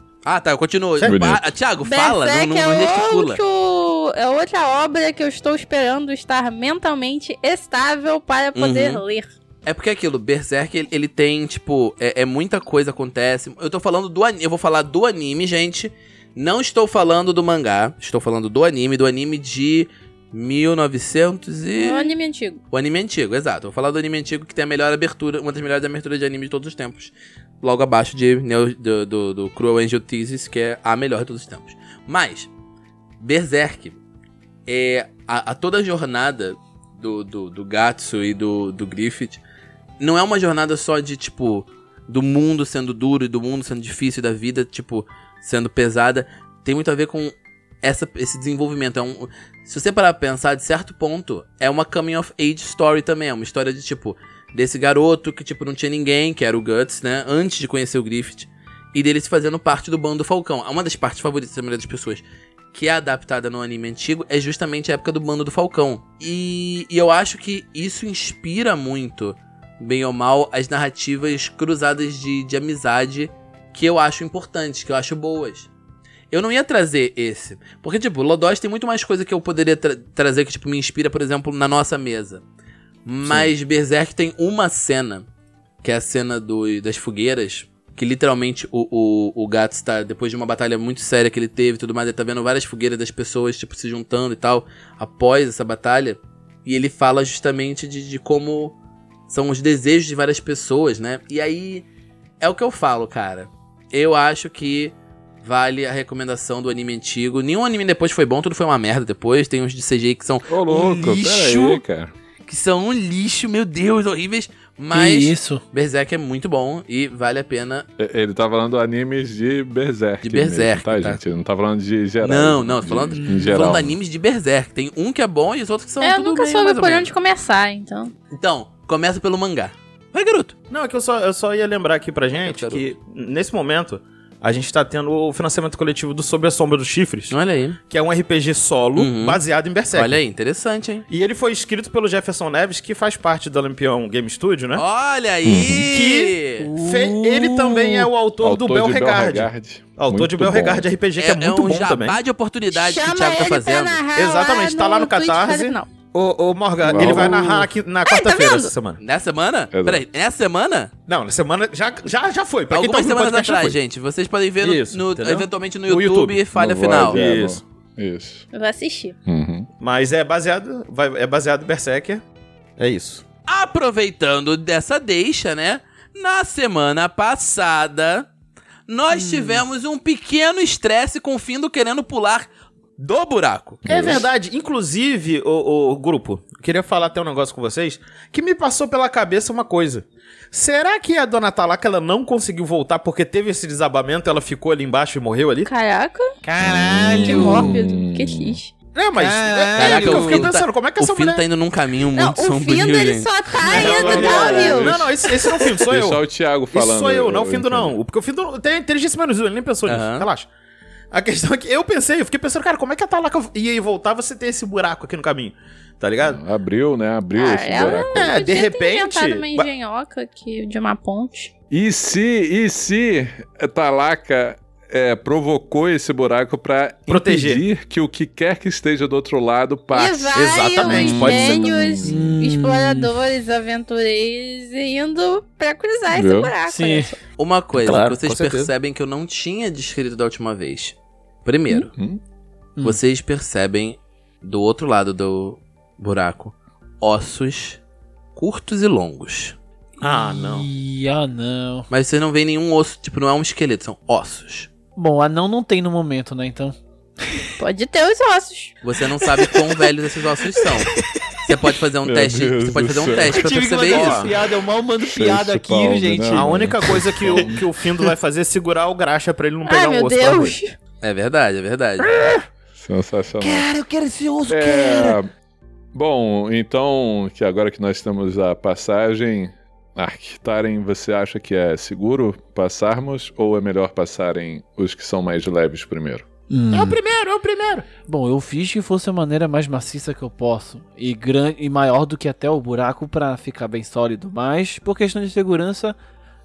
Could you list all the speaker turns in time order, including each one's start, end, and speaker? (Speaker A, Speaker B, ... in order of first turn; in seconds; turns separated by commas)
Speaker A: 0.3-3.4, Speaker B: 1.0-1.2, Speaker C: 1.0-1.4, Speaker D: 1.8-9.3, Speaker A: 8.6-9.0, Speaker A: 9.7-22.1, Speaker D: 21.8-22.6, Speaker A: 22.7-32.5, Speaker A: 33.2-34.0, Speaker A: 34.7-39.4, Speaker A: 40.0-75.7, Speaker A: 76.3-82.4, Speaker A: 83.1-85.3, Speaker A: 85.8-98.8, Speaker A: 99.3-101.9, Speaker A: 102.4-111.8, Speaker C: 110.5-112.1, Speaker A: 112.5-117.9, Speaker E: 114.9-115.6, Speaker C: 118.0-124.0, Speaker A: 120.2-121.2, Speaker A: 122.2-127.1, Speaker E: 123.3-123.5, Speaker D: 126.0-128.1, Speaker A: 128.3-130.5, Speaker B: 130.7-137.3, Speaker A: 132.4-132.8, Speaker A: 137.3-137.8, Speaker B: 137.9-140.2, Speaker A: 139.0-139.4, Speaker A: 139.9-141.1, Speaker B: 141.1-144.8, Speaker A: 144.8-146.7, Speaker C: 145.4-145.9, Speaker B: 145.9-152.2, Speaker E: 146.6-148.1, Speaker C: 148.4-150.9, Speaker A: 151.2-154.0, Speaker D: 152.7-155.9, Speaker B: 154.2-159.0, Speaker C: 156.8-157.5, Speaker E: 156.9-157.7, Speaker D: 158.0-158.7, Speaker A: 159.0-160.9, Speaker C: 159.7-160.0, Speaker B: 161.1-163.8, Speaker A: 162.7-167.2, Speaker B: 164.6-166.4, Speaker C: 166.6-168.5, Speaker B: 167.1-167.6, Speaker D: 168.5-169.2, Speaker C: 169.3-169.7, Speaker B: 169.8-172.2, Speaker B: 172.8-173.2, Speaker A: 173.5-178.3, Speaker A: 178.9-182.5, Speaker E: 179.1-179.6, Speaker A: 183.0-184.2, Speaker C: 183.8-184.3, Speaker B: 183.9-195.7, Speaker D: 195.7-196.3, Speaker E: 196.4-197.8, Speaker C: 196.6-198.6, Speaker D: 197.2-198.7, Speaker B: 198.9-201.4, Speaker E: 199.2-200.5, Speaker A: 199.8-203.3, Speaker D: 202.2-205.0, Speaker E: 203.6-204.9, Speaker B: 203.7-206.2, Speaker C: 204.5-205.2, Speaker C: 205.9-208.0, Speaker B: 206.7-210.5, Speaker A: 209.9-210.3, Speaker B: 211.1-216.4, Speaker C: 216.2-218.3, Speaker D: 217.3-221.5, Speaker B: 217.9-219.7, Speaker C: 221.7-232.2, Speaker B: 227.1-227.6, Speaker D: 229.9-237.2, Speaker B: 230.3-232.0, Speaker E: 232.0-233.1, Speaker C: 236.1-236.5, Speaker E: 236.7-237.1, Speaker A: 237.4-241.9, Speaker B: 237.7-238.7, Speaker C: 241.9-242.2, Speaker A: 242.8-247.8, Speaker A: 248.4-249.6, Speaker E: 250.0-251.9, Speaker B: 250.0-250.7, Speaker A: 251.9-254.7, Speaker E: 255.0-256.8, Speaker D: 257.6-258.7, Speaker A: 258.8-264.3, Speaker E: 259.2-259.6, Speaker E: 260.6-261.4, Speaker C: 262.0-263.4, Speaker E: 263.3-266.6, Speaker B: 263.9-264.3, Speaker C: 265.0-267.6, Speaker B: 266.3-270.6, Speaker E: 267.2-267.5, Speaker D: 269.6-270.8, Speaker A: 271.0-272.1, Speaker C: 272.7-273.7, Speaker E: 273.4-275.2, Speaker C: 274.5-275.3, Speaker C: 275.9-286.3, Speaker E: 286.5-287.0, Speaker B: 286.7-287.9, Speaker E: 288.1-296.0